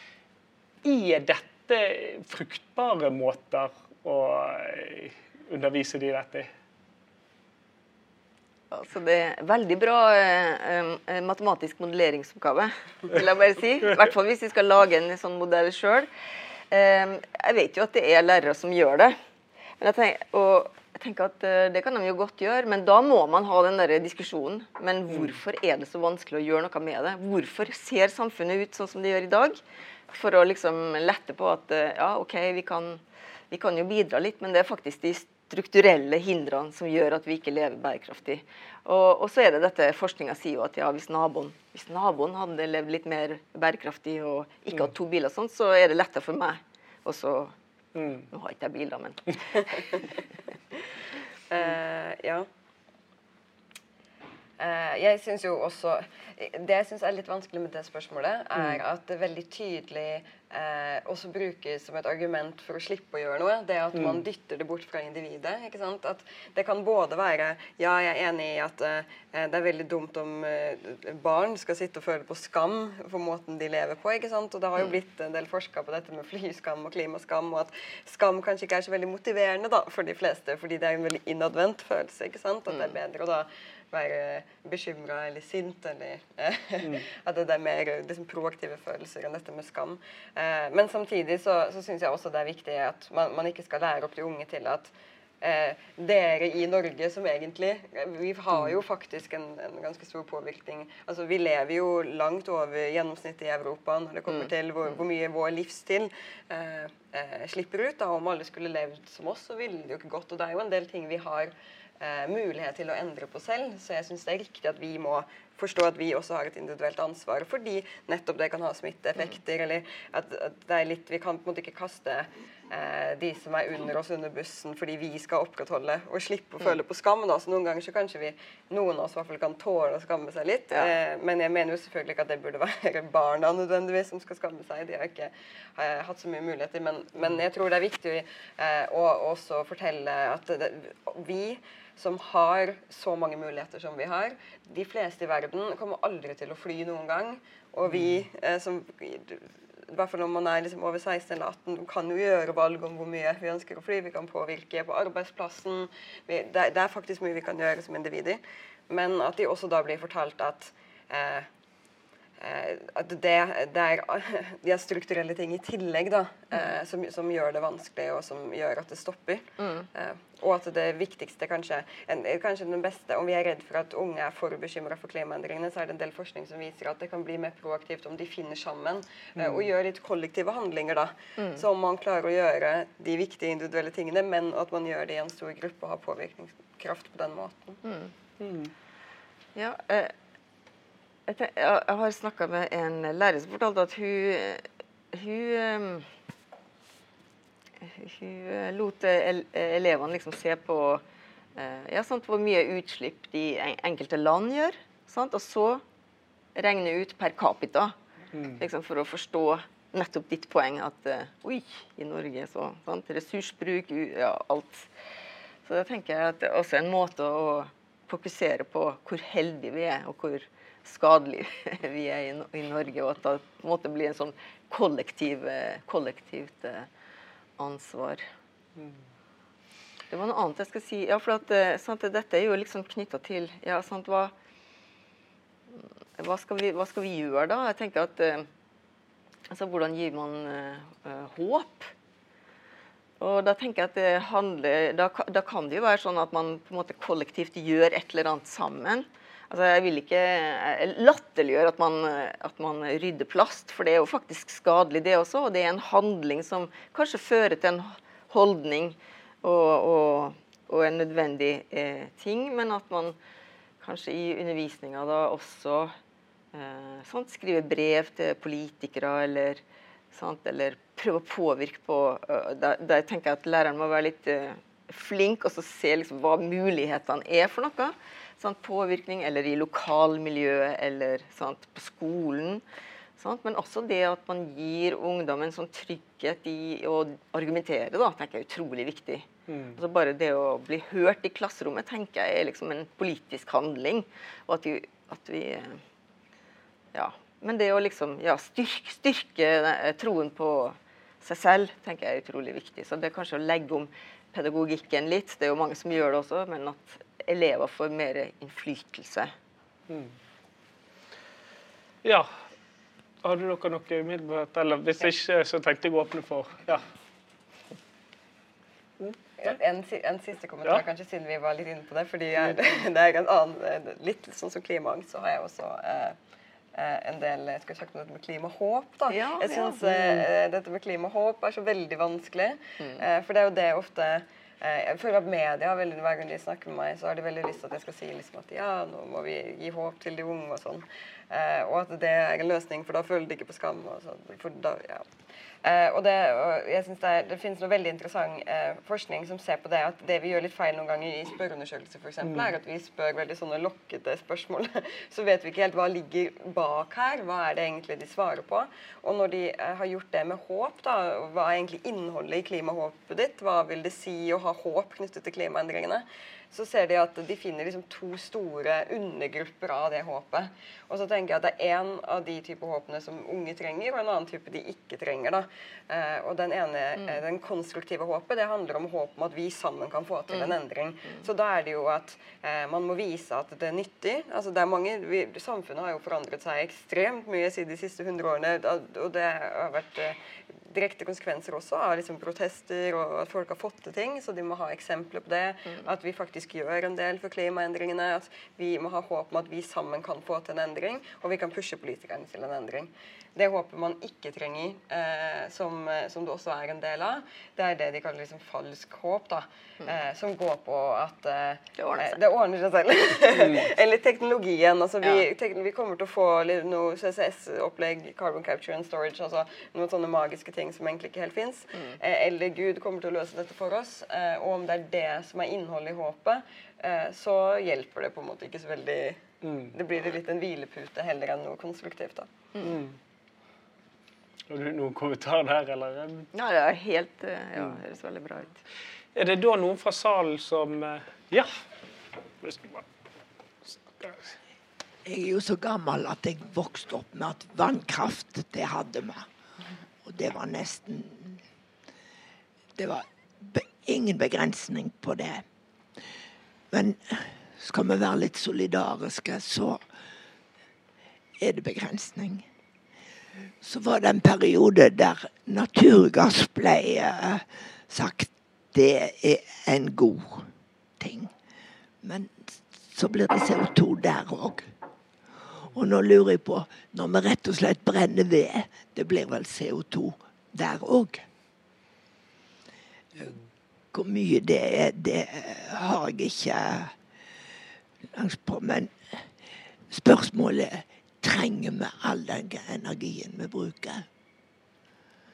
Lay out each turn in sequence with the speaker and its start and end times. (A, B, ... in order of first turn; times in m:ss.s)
0:00.8-0:06.5 A
0:08.7-0:16.1 B
0:16.7-0:19.2 B
0:19.8-0:29.6 B
0:25.1-0:25.3 A
0:30.1-0:47.5 B
0:48.0-0:48.2 A
0:48.3-0:50.0 B
0:51.5-0:52.4 C
0:54.6-2:41.5 C
1:03.9-1:04.2 A
1:22.7-1:23.0 B
2:10.7-2:10.9 B
2:27.8-2:28.2 A
2:42.4-3:07.8 C
2:49.6-2:49.9 B
3:01.4-3:01.6 B
3:07.8-3:08.1 B
3:08.4-3:08.7 A
3:09.5-3:10.1 B
3:11.3-3:16.0 B
3:17.8-3:21.0 B
3:21.5-3:25.8 B
3:26.5-3:27.9 B
3:28.3-3:28.6 A
3:28.6-3:34.9 B
3:35.6-3:46.9 B
3:47.6-3:48.2 B
3:50.1-3:54.3 B
3:55.7-3:58.5 B
3:59.5-4:01.9 B
4:03.2-4:23.2 B
4:23.8-4:25.9 B
4:26.5-4:42.6 B
4:43.2-4:55.8 B
4:49.5-4:49.8 A
4:56.9-5:09.3 B
5:09.9-5:10.1 A
5:12.0-5:12.3 A
5:13.2-5:16.8 A
5:19.0-5:19.5 A
5:19.4-5:26.2 C
5:26.7-5:45.0 C
5:29.1-5:30.3 B
5:32.8-5:33.0 B
5:45.6-7:09.2 C
5:52.2-5:52.5 A
6:20.3-6:20.6 B
6:51.8-6:52.2 B
6:53.3-6:53.7 A
7:09.4-7:09.7 A
7:09.7-7:12.3 C
7:12.6-7:13.0 A
7:14.5-7:16.3 A
7:16.3-7:18.6 B
7:19.1-7:21.5 A
7:22.4-7:22.8 A
7:23.7-7:24.3 A
7:25.0-7:29.3 D
7:30.0-7:31.4 D
7:32.8-7:35.4 D
7:36.7-7:39.9 D
7:41.4-7:42.4 D
7:43.6-7:51.3 D
7:52.0-7:54.7 D
7:55.6-8:01.3 D
8:03.9-8:07.0 D
8:08.1-8:09.2 D
8:09.9-8:14.0 D